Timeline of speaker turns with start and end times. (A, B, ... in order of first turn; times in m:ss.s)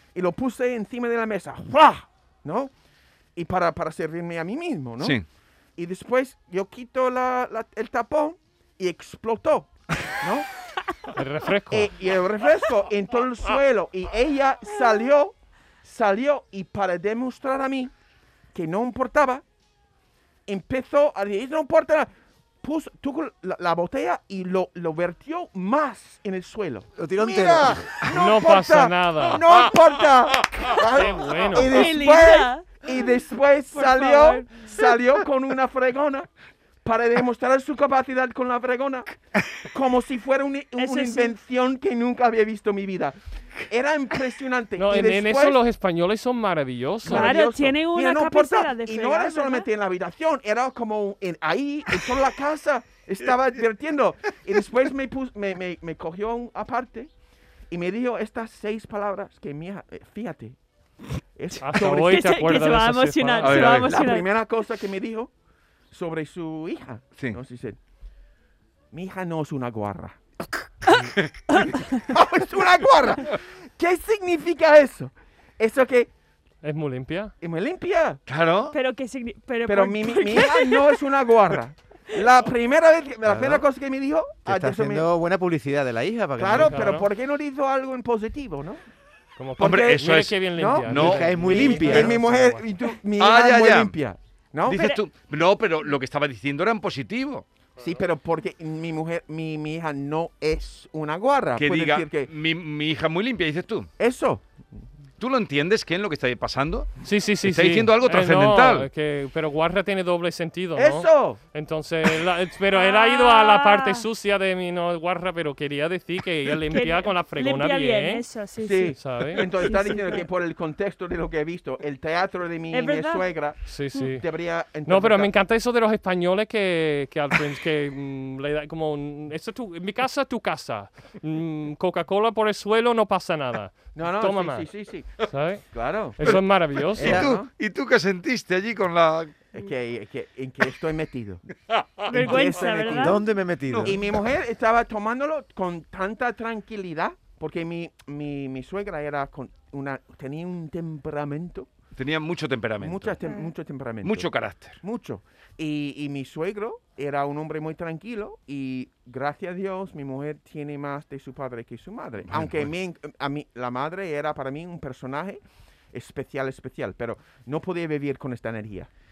0:00.1-0:02.7 A
0:03.4-0:05.2 A
0:05.0-0:05.2 B
0:05.8-0:10.5 A
0:11.1-0:11.9 C
0:11.7-0:17.9 A
0:18.5-0:19.4 A
0:20.5-0:22.1 A
0:22.6-0:36.3 A
0:27.0-0:27.9 D
0:28.1-0:29.4 C
0:30.9-0:31.7 C
0:31.7-0:32.8 E
0:33.7-0:34.8 E
0:36.8-0:45.6 A
0:40.8-0:41.3 E
0:44.8-0:47.3 C
0:47.0-0:57.1 A
0:47.0-0:49.7 E
0:57.7-1:00.6 A
1:01.3-1:02.2 A
1:01.6-1:03.7 C
1:01.9-1:04.3 E
1:03.4-1:03.9 B
1:03.5-1:05.3 A
1:05.9-1:07.8 A
1:08.9-1:10.2 A
1:11.0-1:11.4 B
1:11.5-1:12.0 E
1:12.1-1:16.1 A
1:16.6-1:17.3 C
1:17.4-1:18.2 A
1:18.3-1:18.7 B
1:18.7-1:21.0 E
1:19.7-1:25.0 A
1:23.2-1:23.6 D
1:24.4-1:27.0 D
1:26.4-1:28.8 A
1:26.5-1:27.1 C
1:29.4-1:32.7 C
1:29.6-1:35.0 A
1:29.6-1:32.1 B
1:30.9-1:32.2 D
1:33.2-1:33.9 B
1:34.7-1:37.4 B
1:37.8-1:42.3 A
1:41.6-1:43.9 B
1:44.0-1:44.4 A
1:45.2-1:46.9 B
1:47.0-1:58.2 C
1:47.4-1:48.9 B
1:50.7-1:51.4 A
1:52.7-1:54.0 E
1:56.7-2:00.3 E
1:58.6-2:05.3 A
1:59.0-1:59.4 C
2:02.7-2:03.2 E
2:03.7-2:04.2 C
2:04.9-2:14.7 C
2:13.9-2:15.1 A
2:15.2-2:15.6 C
2:15.7-2:16.3 A
2:16.2-2:17.2 C
2:16.2-2:19.4 B
2:17.0-2:17.5 A
2:17.0-2:17.3 D
2:19.5-2:21.5 A
2:21.7-2:22.5 B
2:22.1-2:23.2 E
2:22.1-2:23.2 A
2:22.9-2:24.0 D
2:23.7-2:24.0 B
2:23.8-2:31.7 A
2:32.0-2:33.2 B
2:32.8-2:45.4 A
2:33.2-2:33.5 E
2:34.0-2:34.8 B
2:42.3-2:42.7 B
2:45.9-2:48.9 A